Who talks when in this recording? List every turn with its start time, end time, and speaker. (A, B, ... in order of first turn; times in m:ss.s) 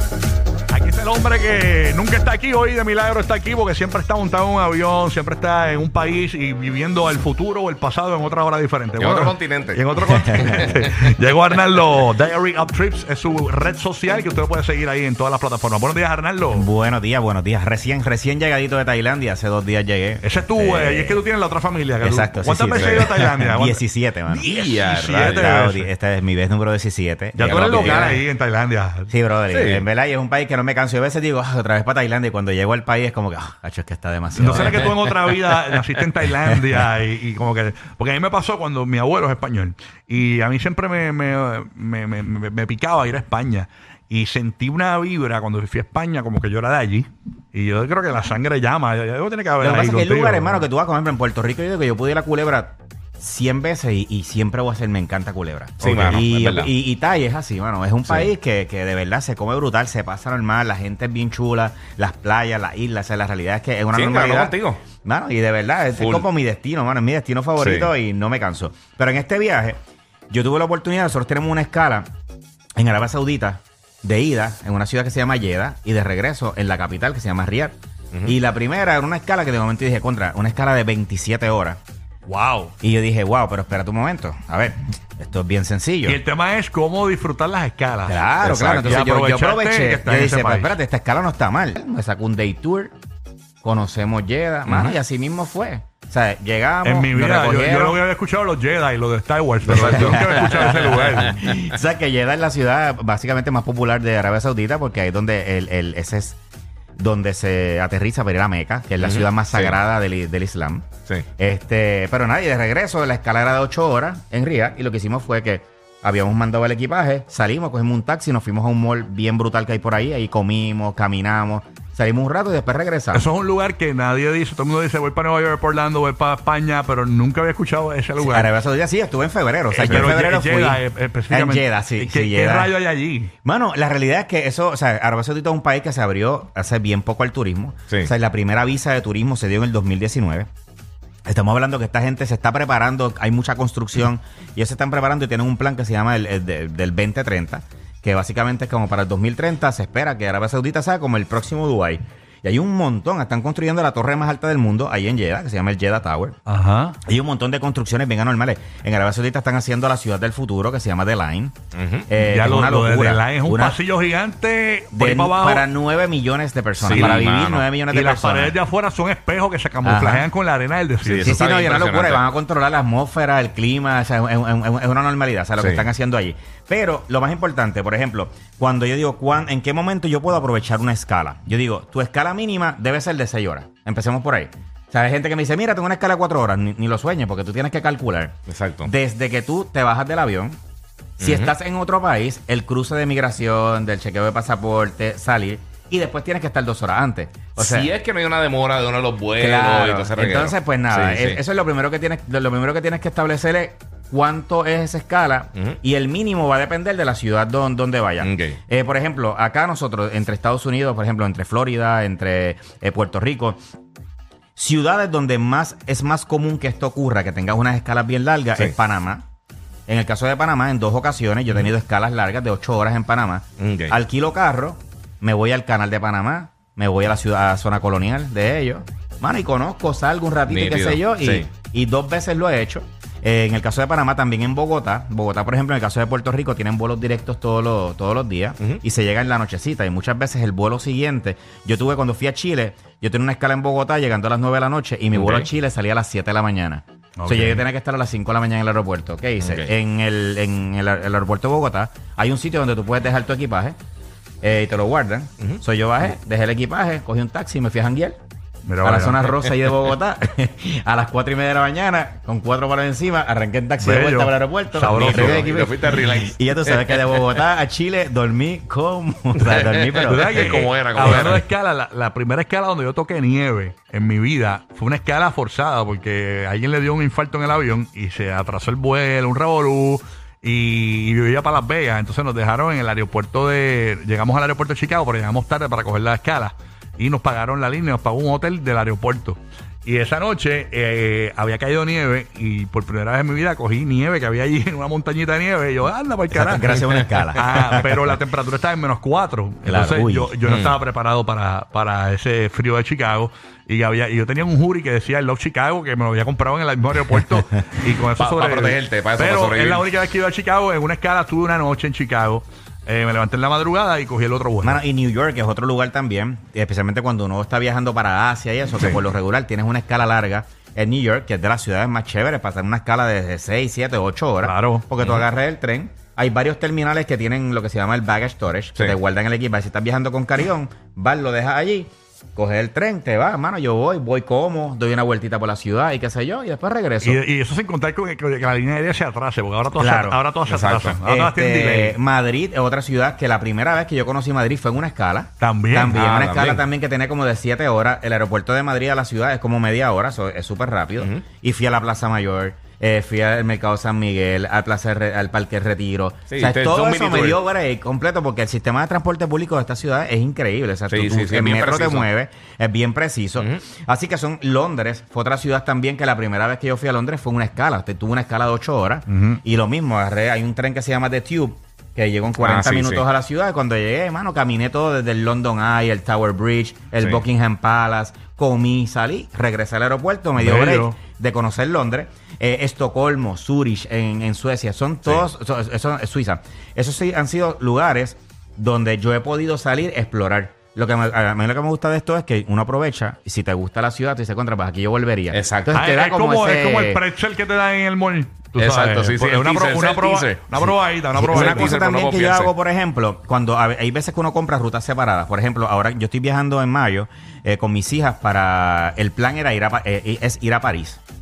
0:00.7-0:16.6 A
0:09.0-0:11.1 B
0:10.0-0:10.6 C
0:16.5-0:21.2 C
0:20.2-0:25.9 A
0:22.0-0:24.5 C
0:22.7-0:23.1 B
0:24.4-0:25.5 B
0:25.2-0:28.2 C
0:27.3-0:29.1 A
0:27.4-0:28.2 B
0:29.1-0:34.8 C
0:29.5-0:29.8 B
0:34.3-0:50.7 A
0:34.4-0:34.8 B
0:49.6-1:09.8 C
0:55.8-0:56.7 B
1:03.9-1:04.8 B
1:05.9-1:06.2 B
1:07.6-1:07.9 B
1:10.3-1:12.1 C
1:12.8-1:21.8 C
1:22.3-1:22.7 A
1:22.8-1:26.2 C
1:26.0-1:30.7 A
1:28.0-1:32.9 C
1:33.6-1:38.0 C
1:34.7-1:34.9 B
1:36.8-1:41.4 A
1:39.6-1:46.4 C
1:39.7-1:41.6 B
1:47.0-2:03.3 C
1:49.0-1:49.8 B
2:03.1-2:08.5 A
2:08.2-2:12.7 C
2:09.7-2:13.3 A
2:09.8-2:10.1 B
2:13.4-2:20.5 C
2:21.2-2:36.4 C
2:36.5-2:37.0 A
2:37.0-2:41.6 C
2:41.7-2:42.1 B
2:42.1-2:43.8 C
2:42.2-2:45.6 A
2:44.9-2:48.6 C
2:46.8-2:47.7 B
2:46.9-2:47.3 A
2:47.9-2:51.4 A
2:49.8-2:50.3 C
2:51.0-2:52.2 B
2:51.2-3:10.6 C
2:55.6-2:55.9 B
3:08.5-3:08.9 B
3:11.2-3:11.5 B
3:11.2-3:17.9 C
3:17.6-3:21.4 B
3:19.4-3:33.6 C
3:28.2-3:28.6 B
3:34.6-3:39.2 C
3:39.9-4:13.7 C
3:43.6-3:44.0 B
3:50.5-3:51.5 B
4:05.1-4:05.5 B
4:07.2-4:07.6 A
4:09.4-4:09.7 B
4:14.4-4:18.2 C
4:18.6-4:19.3 A
4:18.8-4:31.2 C
4:23.8-4:25.8 A
4:24.9-4:27.4 B
4:29.5-4:31.4 B
4:30.0-5:14.8 A
4:56.3-4:58.0 C
4:59.6-5:00.3 C
5:00.4-5:00.8 B
5:08.2-5:09.8 B
5:14.6-5:37.2 C
5:24.4-5:24.8 A
5:37.0-5:42.0 A
5:39.7-5:40.2 C
5:40.4-5:41.0 B
5:41.0-6:37.0 C
5:45.4-5:46.0 A
5:45.9-5:46.6 B
5:56.3-5:57.4 B
6:00.9-6:02.1 B
6:12.4-6:13.0 B
6:20.4-6:21.0 A
6:35.3-6:35.8 B
6:35.7-6:41.8 A
6:38.6-6:42.5 B
6:41.1-6:51.0 C